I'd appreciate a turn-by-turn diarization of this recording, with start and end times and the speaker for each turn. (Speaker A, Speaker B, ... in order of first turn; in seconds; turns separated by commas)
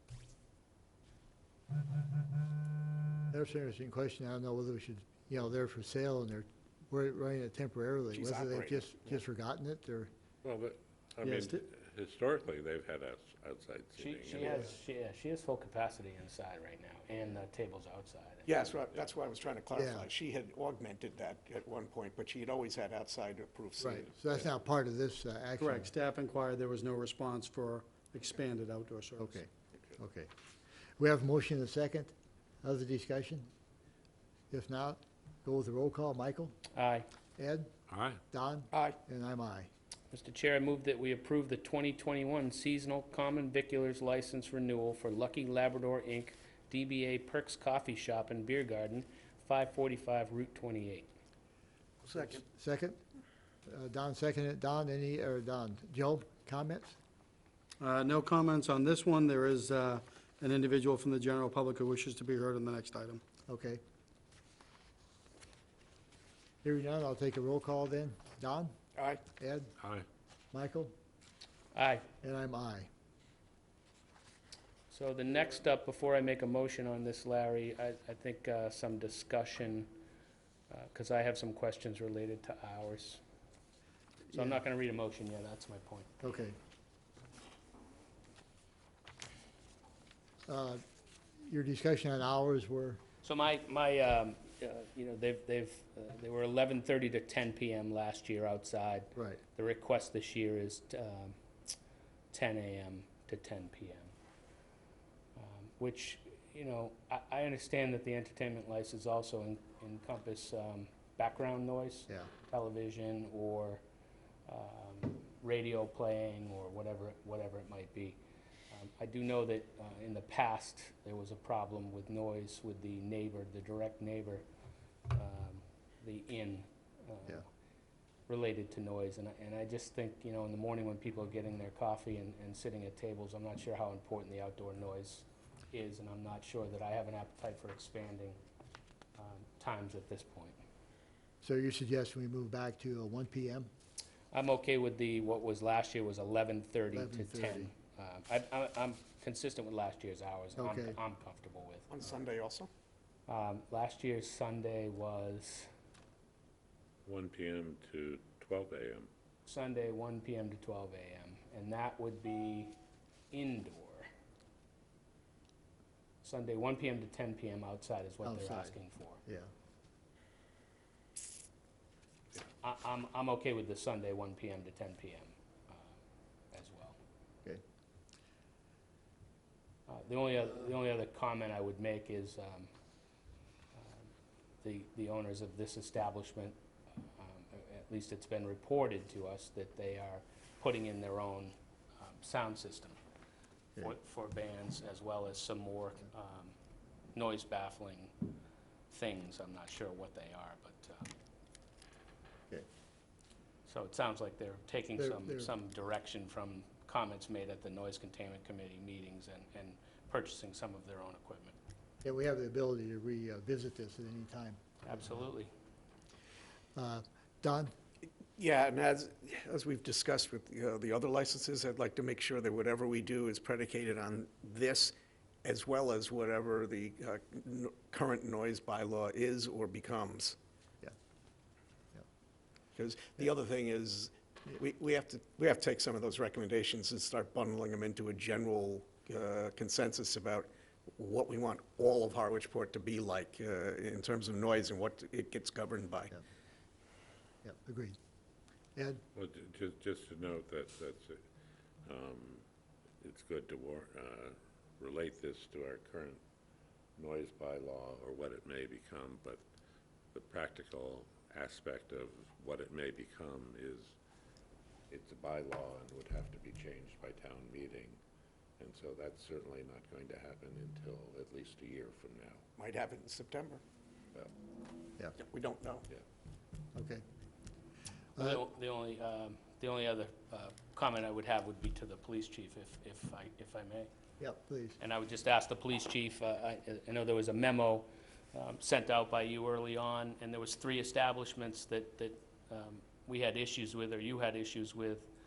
Speaker A: 3.3-10.1, Speaker B: 8.1-9.2, Speaker C: 10.4-14.6, Speaker D: 11.2-11.6, Speaker E: 14.0-18.7, Speaker A: 14.3-14.7, Speaker B: 18.4-24.4, Speaker A: 19.7-20.1, Speaker A: 23.8-25.9, Speaker D: 25.6-29.4, Speaker A: 29.2-30.3, Speaker A: 31.0-33.5, Speaker A: 34.5-36.6, Speaker E: 36.7-37.1, Speaker A: 37.4-37.7, Speaker C: 37.9-38.2, Speaker A: 38.3-39.7, Speaker E: 40.1-51.1, Speaker A: 52.1-53.0, Speaker A: 53.7-57.0, Speaker D: 57.8-63.2, Speaker A: 63.5-63.8, Speaker A: 66.6-68.7, Speaker B: 69.0-69.2, Speaker A: 69.4-69.7, Speaker C: 69.8-70.0, Speaker A: 70.5-70.9, Speaker E: 71.7-72.1, Speaker A: 72.2-72.9, Speaker E: 74.9-79.9, Speaker E: 80.7-83.2, Speaker A: 84.3-84.6, Speaker E: 84.3-86.2, Speaker A: 86.2-86.5, Speaker A: 90.5-90.8, Speaker A: 91.4-93.0, Speaker E: 93.2-101.3, Speaker E: 102.3-104.1, Speaker E: 105.4-113.8, Speaker E: 114.5-118.2, Speaker E: 118.7-124.4, Speaker E: 125.1-127.4, Speaker E: 128.3-138.4, Speaker E: 139.2-140.6, Speaker A: 141.4-143.7, Speaker E: 144.3-152.0, Speaker A: 146.9-147.7, Speaker A: 150.6-150.9, Speaker B: 151.9-152.7, Speaker E: 153.3-155.7, Speaker C: 157.0-159.1, Speaker E: 159.4-162.7, Speaker E: 163.3-164.1, Speaker E: 166.2-169.2, Speaker A: 168.2-169.5, Speaker E: 172.6-175.8, Speaker E: 176.5-177.0, Speaker E: 179.9-182.7, Speaker E: 184.6-186.6, Speaker E: 187.2-193.0, Speaker E: 193.8-196.5, Speaker E: 197.1-198.1, Speaker E: 198.9-201.1, Speaker E: 203.7-211.6, Speaker A: 205.0-205.5, Speaker A: 212.0-215.1, Speaker E: 214.8-215.5, Speaker A: 216.8-217.7, Speaker B: 218.3-230.3, Speaker B: 232.7-246.1, Speaker A: 247.4-248.0, Speaker A: 248.8-249.0, Speaker C: 249.1-251.2, Speaker C: 251.8-252.4, Speaker C: 253.0-256.2, Speaker C: 257.0-259.4, Speaker C: 260.1-263.9, Speaker C: 264.9-268.0, Speaker C: 268.6-272.4, Speaker B: 272.6-273.6, Speaker B: 275.2-275.9, Speaker A: 276.7-277.0, Speaker E: 278.2-283.9, Speaker A: 284.2-284.8, Speaker E: 284.8-295.1